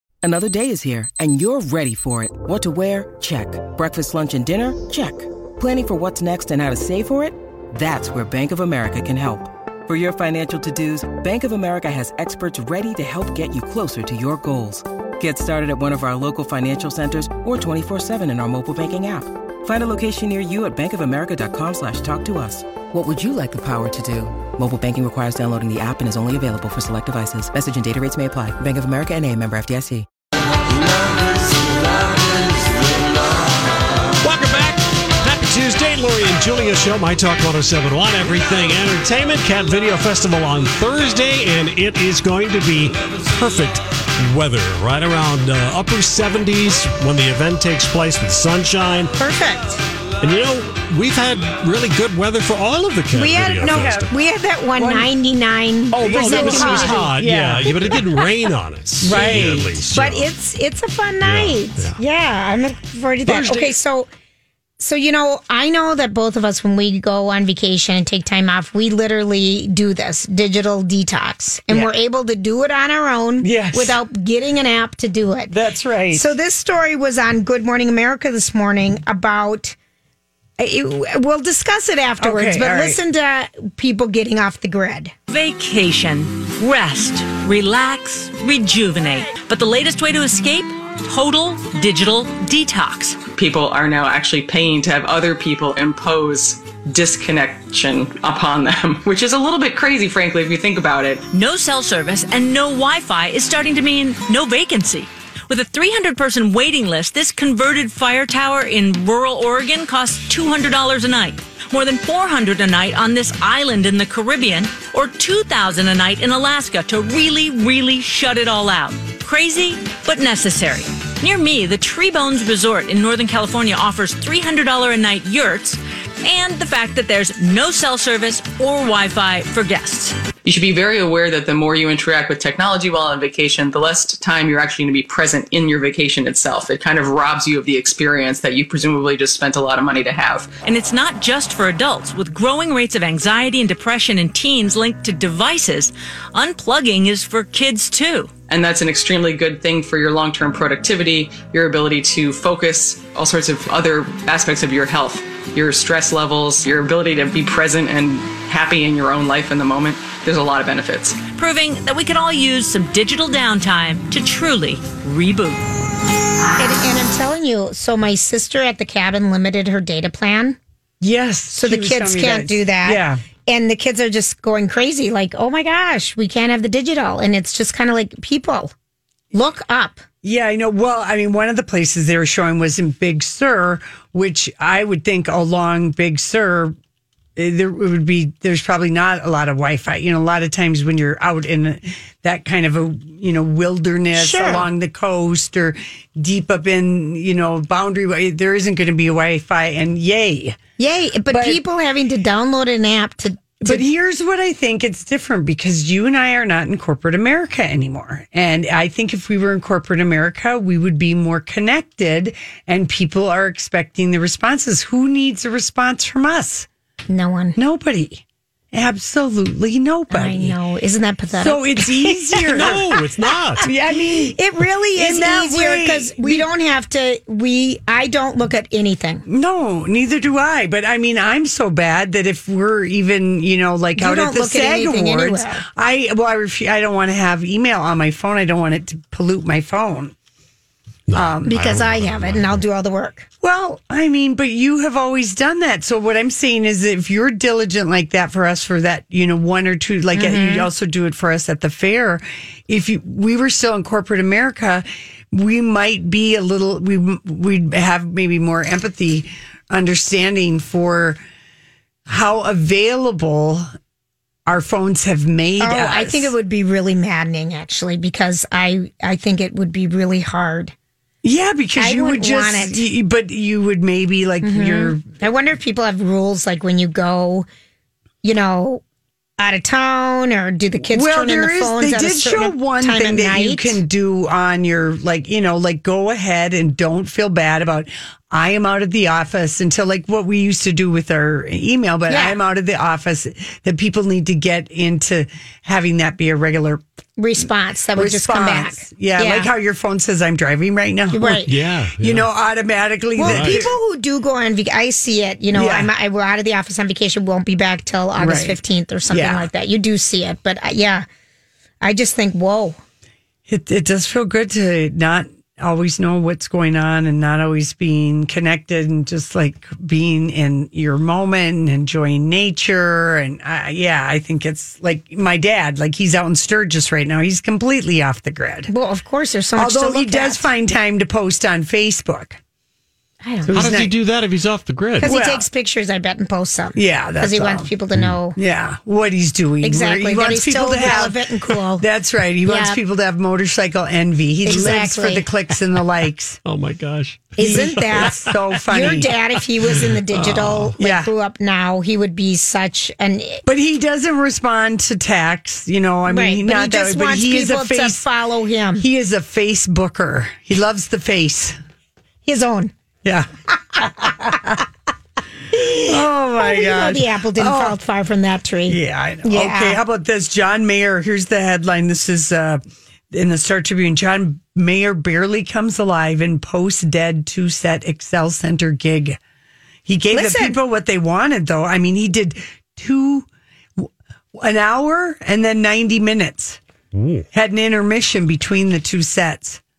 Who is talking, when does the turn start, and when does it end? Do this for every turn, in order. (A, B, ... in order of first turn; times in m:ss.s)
0:00.2-0:30.1 A
0:34.2-0:49.1 B
0:49.2-0:49.8 C
0:50.2-0:54.1 B
0:53.1-0:57.1 C
0:53.6-0:54.1 D
0:54.8-0:55.1 D
0:55.9-1:00.3 B
0:55.9-0:58.0 D
0:57.7-0:58.3 C
0:59.0-0:59.8 D
0:59.1-1:04.1 C
1:01.2-1:02.0 B
1:03.3-1:03.8 B
1:04.8-1:15.5 C
1:13.4-1:14.0 D
1:15.5-1:16.3 D
1:16.1-1:19.8 C
1:20.6-1:25.1 C
1:22.2-1:23.0 D
1:25.3-1:33.2 E
1:33.4-1:41.3 F
1:41.3-2:10.2 E
2:10.4-2:20.6 F
2:20.6-2:28.3 E
2:28.5-2:41.2 F
2:41.4-2:45.6 E
2:46.6-2:50.6 C
2:51.0-2:53.2 D
2:51.5-2:58.7 C
2:59.3-3:00.0 C
3:00.2-3:06.8 D
3:07.4-3:20.6 D
3:14.1-3:14.7 C
3:20.8-3:23.8 C
3:21.3-3:21.6 D
3:23.6-3:36.7 D
3:37.1-3:37.6 C
3:37.6-3:40.6 D
3:40.1-3:49.2 C
3:41.3-3:42.9 D
3:42.5-3:43.7 B
3:43.6-3:44.4 D
3:44.9-3:46.5 D
3:49.3-4:00.2 D
3:54.0-3:55.6 C
4:01.1-4:02.6 B
4:01.2-4:01.6 D
4:01.4-4:03.3 C
4:03.4-4:21.2 D
4:10.1-4:10.7 C
4:22.1-4:23.7 D
4:24.5-4:26.3 D
4:25.6-4:30.7 C
4:31.2-4:35.0 D
4:31.8-4:32.9 C
4:34.4-4:37.5 C
4:38.2-4:38.8 C
4:39.4-4:43.8 C
4:40.9-4:56.8 D
4:52.1-4:52.4 C
4:57.2-4:59.5 C
4:58.0-5:01.3 D
5:01.1-5:01.5 C
5:01.3-5:02.3 B
5:02.0-5:03.7 D
5:03.2-5:11.1 C
5:03.2-5:03.7 B
5:05.5-5:05.9 D
5:08.2-5:08.6 D
5:09.1-5:09.5 D
5:11.8-5:12.8 C
5:13.5-5:28.7 D
5:28.7-5:30.5 C
5:29.6-5:32.4 D
5:33.2-5:33.8 C
5:33.4-5:33.9 D
5:33.5-5:35.1 B
5:35.0-5:38.4 C
5:35.0-5:35.4 D
5:36.8-5:37.7 D
5:38.4-5:41.2 D
5:39.6-5:41.8 C
5:41.8-5:46.4 D
5:42.5-5:42.8 C
5:44.4-5:45.3 C
5:46.4-5:48.4 B
5:47.4-5:53.4 C
5:47.4-5:49.1 D
5:49.8-5:50.8 B
5:50.8-5:51.1 D
5:53.5-5:58.0 D
5:56.1-5:58.8 C
5:58.8-6:01.6 D
6:02.2-6:02.7 C
6:03.0-6:04.5 D
6:05.5-6:09.8 C
6:05.8-6:07.8 D
6:08.7-6:12.6 D
6:13.1-6:19.2 D
6:19.9-6:26.6 D
6:20.1-6:20.6 C
6:26.9-6:27.3 B
6:27.3-6:29.6 D